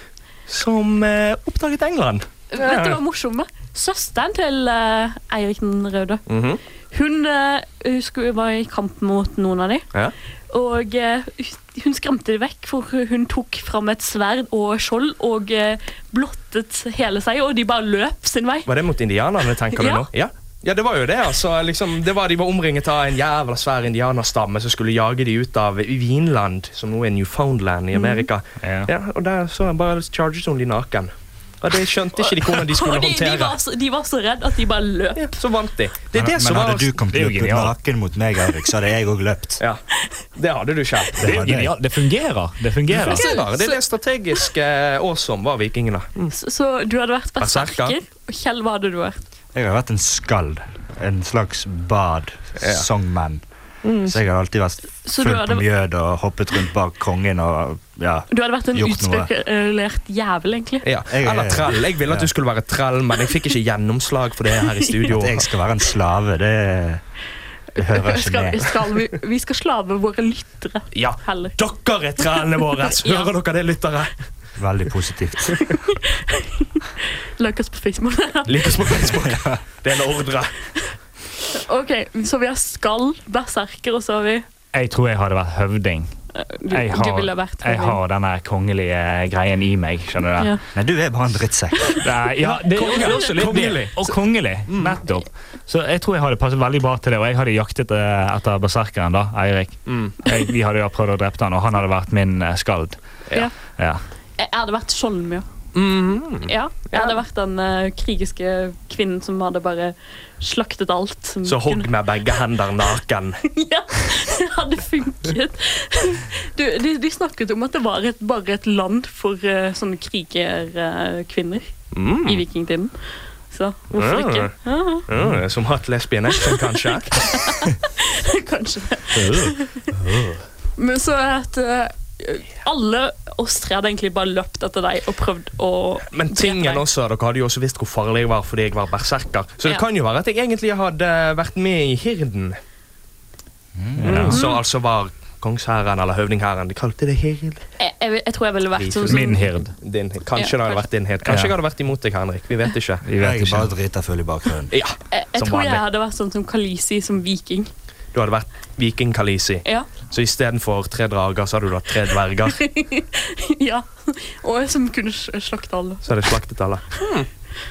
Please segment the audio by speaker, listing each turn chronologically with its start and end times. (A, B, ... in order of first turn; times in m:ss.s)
0:00.5-0:03.0 A
0:02.5-0:06.2 B
0:06.3-0:06.6 A
0:06.9-0:09.9 B
0:10.5-0:18.7 B
0:18.7-0:33.5 A
0:19.7-0:20.0 B
0:27.9-0:28.3 B
0:28.6-0:28.9 C
0:32.2-0:35.3 B
0:35.2-0:36.9 A
0:36.1-0:39.6 D
0:37.1-0:37.7 C
0:40.3-0:41.3 A
0:41.2-0:41.7 D
0:41.2-0:43.3 C
0:42.9-0:46.3 A
0:43.0-0:43.8 B
0:46.3-0:49.2 B
0:47.4-0:48.0 A
0:49.5-0:53.4 D
0:52.6-0:52.8 A
0:53.8-0:54.2 A
0:54.0-0:59.3 D
0:55.0-0:55.6 B
0:58.3-1:00.9 B
1:00.8-1:05.4 A
1:01.1-1:02.3 D
1:04.6-1:04.9 B
1:05.0-1:07.0 D
1:07.7-1:08.7 D
1:07.8-1:11.6 B
1:10.9-1:14.1 A
1:12.8-1:13.4 B
1:14.6-1:15.6 D
1:15.6-1:19.1 B
1:18.5-1:20.5 A
1:19.2-1:19.6 D
1:21.5-1:24.4 B
1:24.7-1:26.1 C
1:26.3-1:28.0 B
1:26.7-1:30.6 C
1:30.7-1:32.0 D
1:32.0-1:43.0 C
1:32.4-1:34.1 A
1:32.9-1:33.5 B
1:34.7-1:34.9 A
1:39.9-1:40.1 A
1:43.7-1:44.0 C
1:44.4-1:45.4 B
1:45.7-1:47.1 A
1:46.4-1:52.4 B
1:51.4-1:53.4 A
1:53.4-2:01.7 B
2:01.9-2:02.4 A
2:02.2-2:02.9 B
2:03.5-2:05.1 B
2:03.9-2:04.5 A
2:05.1-2:07.3 A
2:06.4-2:09.9 B
2:09.9-2:10.4 A
2:10.8-2:16.8 B
2:16.1-2:22.6 A
2:23.7-2:24.4 D
2:24.0-2:27.6 A
2:24.0-2:24.4 C
2:24.3-2:24.6 B
2:27.8-2:29.5 B
2:28.7-2:33.0 A
2:29.0-2:29.7 C
2:30.4-2:30.9 B
2:31.2-2:31.6 C
2:33.0-2:33.7 C
2:33.2-2:34.7 D
2:34.7-2:35.8 A
2:35.1-2:37.7 B
2:38.1-2:42.6 A
2:42.4-2:46.1 B
2:46.0-2:47.3 A